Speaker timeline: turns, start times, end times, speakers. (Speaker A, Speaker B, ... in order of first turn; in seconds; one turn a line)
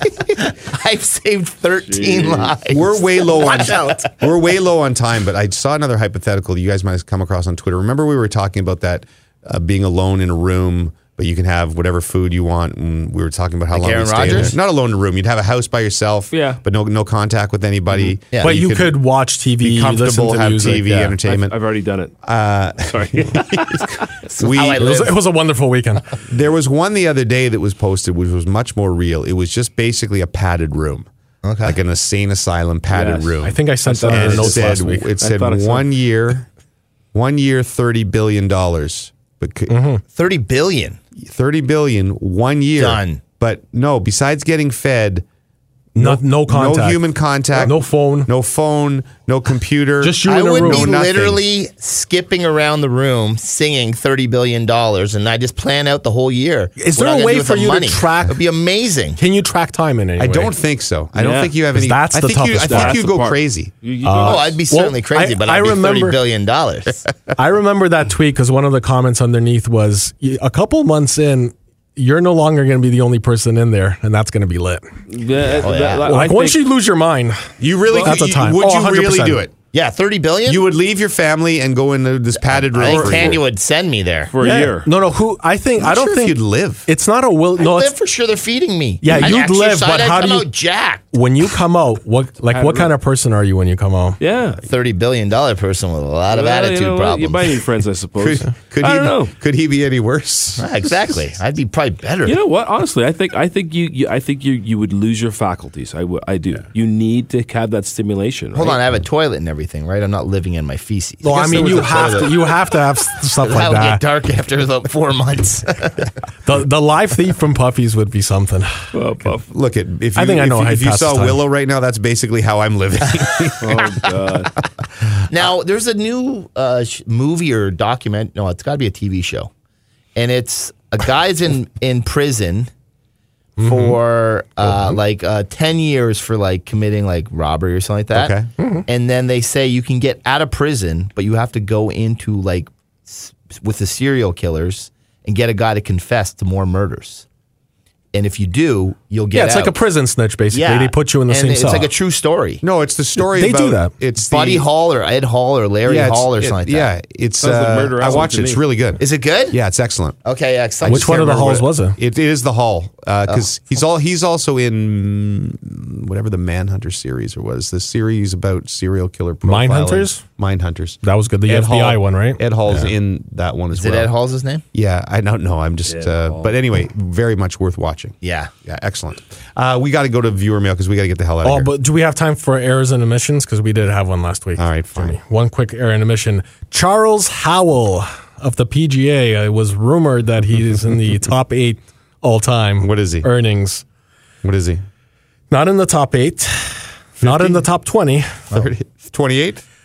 Speaker A: 0.3-4.2
Speaker B: 1.9-2.6
Speaker C: 2.7-19.0
Speaker A: 13.7-14.5
Speaker B: 16.3-16.6
Speaker D: 18.4-20.9
Speaker C: 19.6-21.6
Speaker A: 20.6-21.2
Speaker B: 21.2-22.1
Speaker C: 22.2-24.9
Speaker B: 22.9-23.8
Speaker A: 24.2-25.2
Speaker D: 24.8-26.1
Speaker C: 26.3-31.1
Speaker A: 31.4-31.8
Speaker C: 31.6-33.6
Speaker B: 32.9-35.9
Speaker D: 33.4-35.1
Speaker C: 34.1-36.5
Speaker C: 37.1-39.7
Speaker D: 39.7-40.0
Speaker A: 40.1-41.0
Speaker C: 41.2-45.2
Speaker A: 42.8-43.2
Speaker D: 46.0-48.3
Speaker C: 46.0-51.4
Speaker D: 50.0-50.9
Speaker A: 50.2-59.2
Speaker D: 56.8-58.4
Speaker D: 59.2-60.5
Speaker C: 60.2-63.7
Speaker B: 61.1-61.6
Speaker D: 61.7-63.0
Speaker B: 62.6-64.6
Speaker D: 64.0-66.2
Speaker A: 64.2-67.1
Speaker D: 67.3-74.8
Speaker B: 75.1-76.6
Speaker A: 75.4-76.1
Speaker D: 76.0-79.4
Speaker C: 77.6-79.5
Speaker A: 79.7-80.7
Speaker C: 80.5-83.4
Speaker A: 82.4-84.3
Speaker B: 84.3-84.9
Speaker D: 84.4-87.9
Speaker C: 85.8-86.9
Speaker A: 87.6-91.1
Speaker D: 89.0-90.5
Speaker D: 91.1-94.2
Speaker B: 92.5-92.9
Speaker B: 94.2-94.6
Speaker A: 94.7-97.6
Speaker B: 96.3-99.3
Speaker C: 98.2-101.1
Speaker A: 100.6-102.4
Speaker B: 102.2-108.8
Speaker A: 108.5-112.3
Speaker D: 111.2-114.0
Speaker C: 111.3-112.3
Speaker A: 113.4-116.1
Speaker D: 116.5-118.9
Speaker B: 118.9-119.5
Speaker C: 119.5-124.0
Speaker D: 120.2-121.4
Speaker B: 123.6-124.5
Speaker A: 125.3-129.5
Speaker A: 130.2-132.7
Speaker D: 133.6-134.0
Speaker A: 133.6-138.4
Speaker C: 134.7-134.9
Speaker C: 138.1-138.5
Speaker D: 138.6-138.8
Speaker A: 138.9-147.2
Speaker A: 148.1-149.8
Speaker D: 149.3-151.9
Speaker A: 150.5-152.6
Speaker C: 152.6-154.7
Speaker D: 153.2-153.9
Speaker A: 154.2-156.9
Speaker C: 155.8-160.2
Speaker B: 157.4-158.6
Speaker A: 159.0-159.6
Speaker A: 160.2-161.3
Speaker C: 160.8-174.1
Speaker D: 160.9-162.0
Speaker D: 169.4-170.2
Speaker D: 171.0-172.9
Speaker A: 173.7-174.6
Speaker C: 174.7-181.7
Speaker B: 175.9-176.5
Speaker A: 178.2-178.5
Speaker D: 181.4-193.8
Speaker C: 184.6-185.2
Speaker C: 192.8-193.3
Speaker C: 194.4-194.8
Speaker D: 195.5-198.4
Speaker C: 197.2-197.7
Speaker C: 198.5-199.6